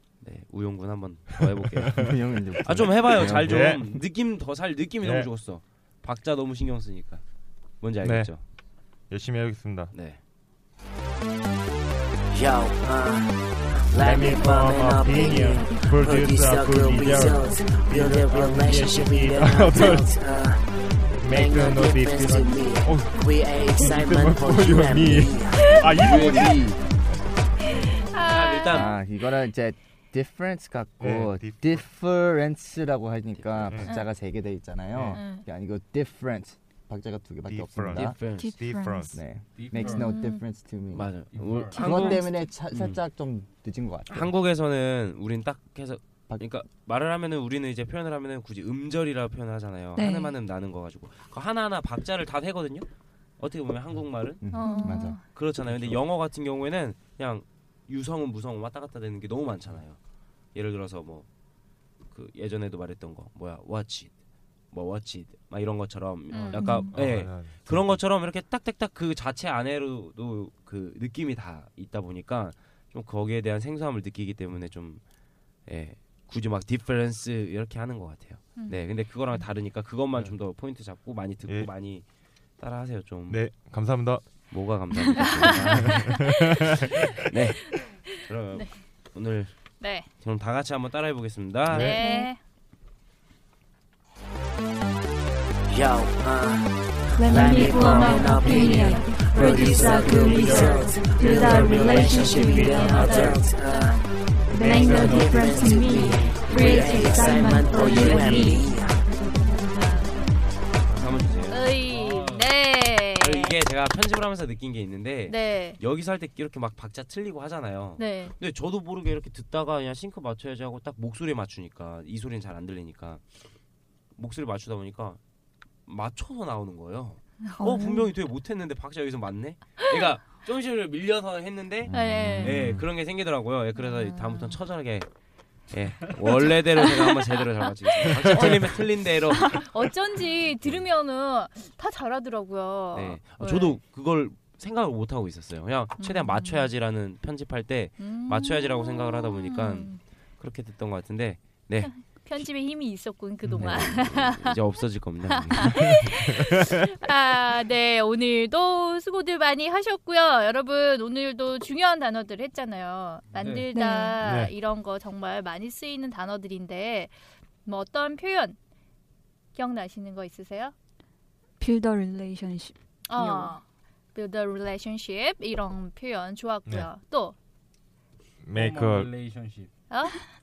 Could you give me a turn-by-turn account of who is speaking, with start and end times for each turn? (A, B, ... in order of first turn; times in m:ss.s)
0:00.2-0:02.0 A
0:01.9-0:02.1 B
0:02.0-0:03.5 C
0:02.6-0:07.2 A
0:02.9-0:03.9 B
0:05.0-0:05.3 B
0:07.8-0:08.4 A
0:08.0-0:08.3 B
0:09.1-0:09.9 B
0:09.9-0:10.2 A
0:12.3-0:13.3 D
0:13.9-0:20.6 D
0:13.9-0:20.2 B
0:21.1-0:26.7 B
0:21.2-0:26.4 D
0:25.7-0:26.3 E
0:26.0-0:26.7 C
0:27.7-0:29.0 E
0:28.2-0:29.0 A
0:28.7-0:38.2 C
0:31.0-0:31.8 B
0:33.3-0:33.9 A
0:33.7-0:34.0 B
0:35.0-0:35.2 B
0:35.1-0:35.4 E
0:37.5-0:39.2 B
0:37.9-0:38.5 A
0:38.3-0:39.2 F
0:39.1-0:41.2 C
0:39.5-0:40.1 G
0:39.8-0:40.4 E
0:40.9-0:43.0 A
0:41.3-0:41.9 G
0:41.7-0:44.3 C
0:41.9-0:42.2 F
0:44.1-0:52.9 A
0:50.0-0:50.4 F
0:53.4-0:54.4 A
0:54.4-0:55.2 C
0:54.5-0:55.2 E
0:54.6-0:54.9 F
0:55.2-1:00.0 A
1:00.5-1:01.3 A
1:02.1-1:04.1 A
1:04.7-1:15.0 A
1:06.3-1:06.7 E
1:06.5-1:07.0 F
1:06.9-1:08.0 B
1:15.7-1:22.0 A
1:22.6-1:23.4 A
1:23.3-1:24.2 B
1:24.5-1:26.0 A
1:25.4-1:27.1 B
1:25.6-1:26.1 E
1:27.1-1:31.9 A
1:29.8-1:30.1 E
1:31.7-1:32.0 B
1:31.7-1:32.4 E
1:32.0-1:32.3 F
1:35.7-1:36.7 D
1:37.2-1:43.4 F
1:37.3-1:44.0 D
1:38.2-1:38.7 B
1:39.3-1:40.9 E
1:40.5-1:43.3 B
1:42.7-1:44.0 E
1:44.5-1:48.6 F
1:44.6-1:49.0 D
1:44.9-1:45.4 B
1:49.3-1:50.2 E
1:50.8-1:51.8 A
1:51.5-1:53.6 E
1:51.9-1:52.5 G
1:53.2-2:03.2 A
1:55.3-1:55.8 E
1:58.0-1:58.3 E
2:04.1-2:05.2 A
2:05.9-2:15.1 A
2:07.5-2:08.1 F
2:11.9-2:12.8 C
2:11.9-2:12.6 E
2:13.8-2:14.6 E
2:15.7-2:19.6 A
2:19.4-2:23.8 E
2:22.9-2:31.9 A
2:26.0-2:26.7 E
2:28.0-2:30.0 E
2:31.8-2:34.6 E
2:33.5-2:35.9 A
2:35.3-2:47.1 E
2:43.3-2:43.7 G
2:43.7-2:44.2 F
2:44.2-2:44.5 B
2:47.6-2:48.6 E
2:49.6-2:50.7 E
2:51.6-2:53.5 F
2:53.1-2:53.6 E
2:54.1-2:57.4 E
2:58.4-2:59.1 B
2:58.5-2:59.7 G
2:59.9-3:00.2 E